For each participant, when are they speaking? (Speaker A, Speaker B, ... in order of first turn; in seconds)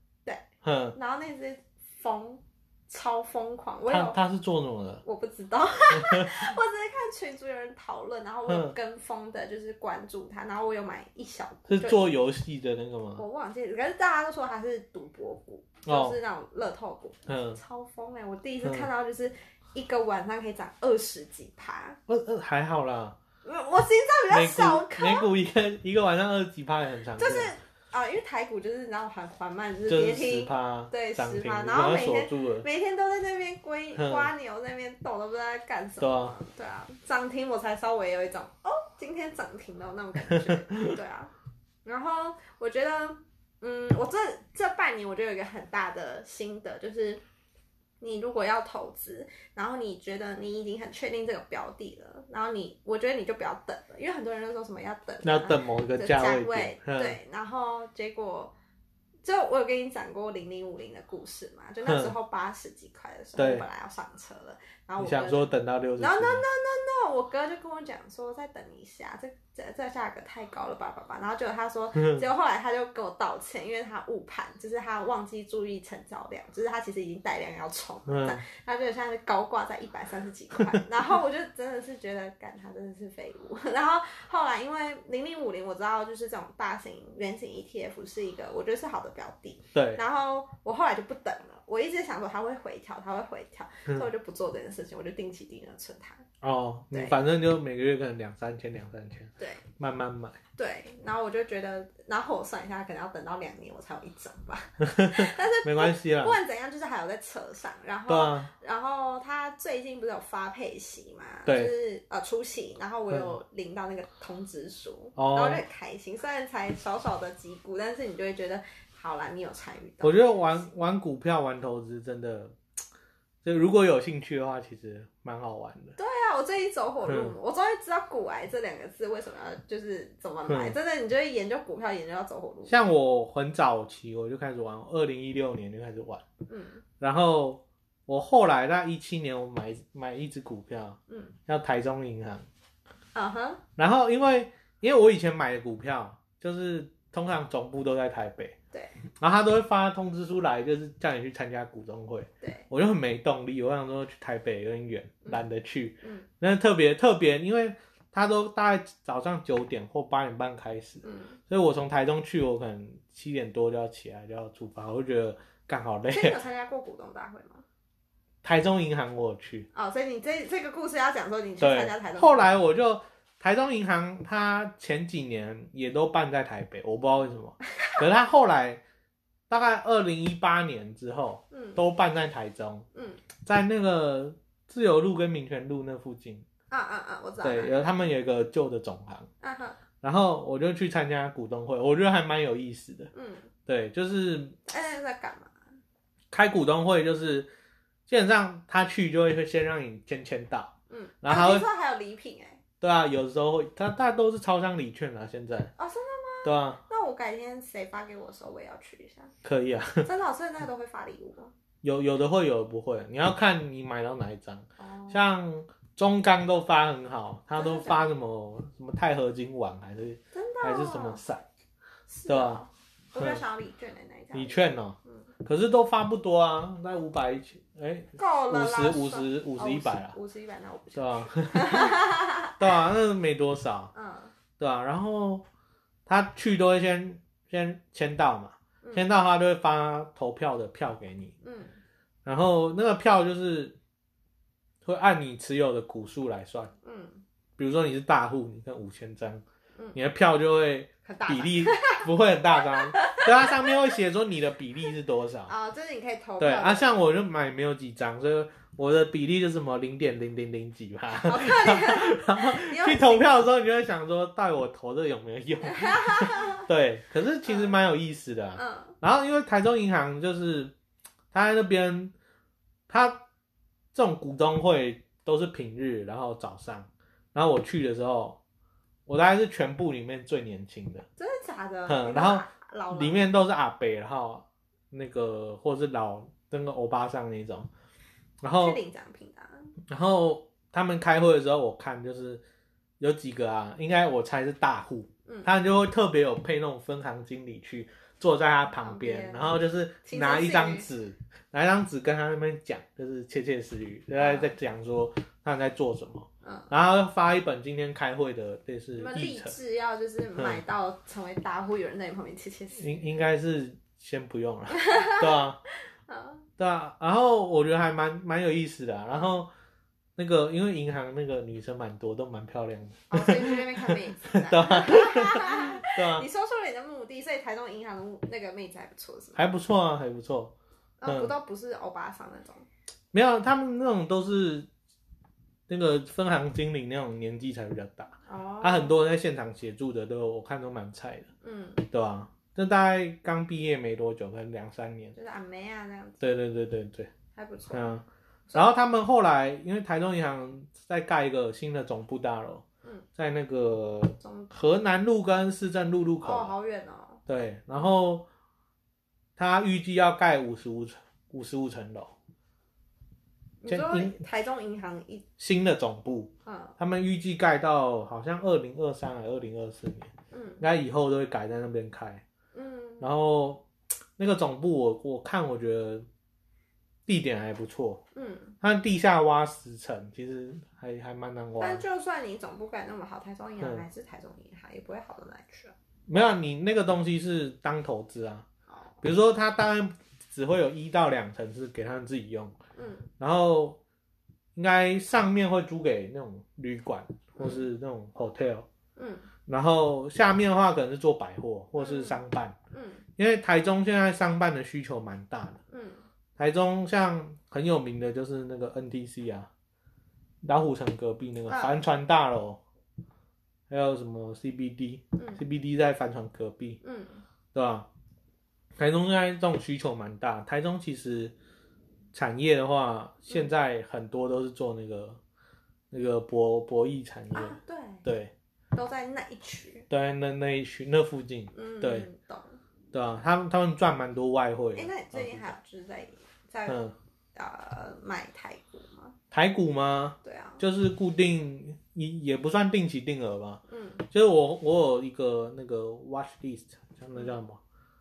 Speaker A: 0.2-4.2, 5.0-12.1, 13.2-22.0, 23.4-25.3, 27.2-41.3, 41.8-47.2, 48.0-58.5, 59.2-96.3, 96.9-97.2, 99.4-99.6, 100.5-120.3, 126.0-132.7, 136.5-136.8, 141.1-141.3, 143.1-143.6, 152.4-152.7, 156.0-156.3, 161.0-161.4, 166.1-167.6, 169.7-172.5, 181.5-181.8, 182.9-183.2, 186.7-187.8, 189.4-189.8, 193.1-193.5, 194.7-195.5, 200.9-202.6, 205.8-209.3, 210.0-211.5, 214.8-215.2, 217.6-218.0, 220.3-221.2, 222.1-225.3, 228.2-232.6, 233.9-234.3, 238.8-239.1, 241.4-241.8, 246.8-247.2, 251.0-253.7, 255.5-257.0, 261.1-263.3, 265.6-266.6, 267.4-267.7, 268.6-268.9, 281.2-283.3, 288.6-289.7, 298.8-300.9, 304.1-304.5, 306.4-306.7, 309.0-313.0, 314.7-315.4, 316.1-316.5, 323.1-329.4, 331.0-332.7, 338.2-338.9, 341.4-341.8, 345.1-346.4, 347.3-347.9, 354.2-354.5, 356.2-357.2, 363.6-365.2, 366.4-366.8, 370.3-370.6, 372.5-373.1, 378.1-378.6, 381.6-385.7, 388.7-389.0, 392.8-393.1, 397.4-397.6, 398.9-399.3, 401.8-402.2, 402.7-403.0, 405.7-406.0, 411.5-411.9, 416.8-417.2, 427.3-428.0, 428.7-429.9, 431.5-432.6, 434.7-436.8, 437.3-439.1, 440.2-440.6, 443.7-444.0
Speaker B: 0.6-0.9, 3.9-5.0, 5.9-6.4, 8.5-8.7, 11.7-13.2, 15.8-16.2, 17.3-17.6, 18.6-18.9, 22.1-23.2, 24.3-27.5, 29.9-32.6, 33.9-34.3, 36.0-36.4, 40.3-41.0, 55.2-57.2, 61.8-62.1, 63.4-63.6, 65.0-66.4, 71.9-72.2, 78.1-78.4, 89.7-90.0, 96.4-100.4, 104.8-106.4, 108.1-108.5, 111.5-111.7, 115.2-115.6, 120.0-122.5, 123.4-126.0, 127.0-127.3, 130.5-130.8, 132.7-136.2, 137.0-142.4, 143.8-148.6, 149.2-166.4, 168.4-169.7, 171.6-178.8, 179.5-182.8, 183.4-186.4, 187.4-189.3, 190.0-193.1, 193.7-194.6, 196.3-197.5, 198.1-201.7, 202.8-205.7, 206.4-206.8, 209.4-210.1, 211.8-221.4, 222.3-222.6, 223.1-223.4, 224.3-230.1, 230.9-232.0, 232.6-233.9, 234.6-235.4, 236.1-241.3, 242.2-243.8, 244.8-246.7, 247.6-255.5, 256.4-270.7, 271.3-272.1, 272.9-273.2, 273.9-278.4, 279.1-281.1, 281.9-287.7, 288.4-288.8, 289.9-292.4, 293.0-309.6, 310.4-310.6, 312.8-315.6, 316.6-319.5, 320.1-326.3, 329.3-330.5, 331.0-331.3, 333.1-334.7, 335.7-341.3, 341.9-345.1, 346.2-347.1, 347.7-352.6, 353.1-356.5, 357.3-358.3, 359.4-362.1, 363.6-364.1, 365.4-372.2, 373.0-373.6, 374.2-376.1, 377.1-378.0, 378.6-381.8, 386.1-388.4, 389.0-392.6, 393.2-393.8, 394.5-398.7, 399.5-402.6, 403.2-405.6, 406.4-409.5, 410.4-412.6, 413.7-416.8, 417.5-417.9, 418.8-421.3, 422.1-425.2, 425.9-428.3, 429.9-432.1, 432.9-435.5, 436.7-436.9, 439.3-447.6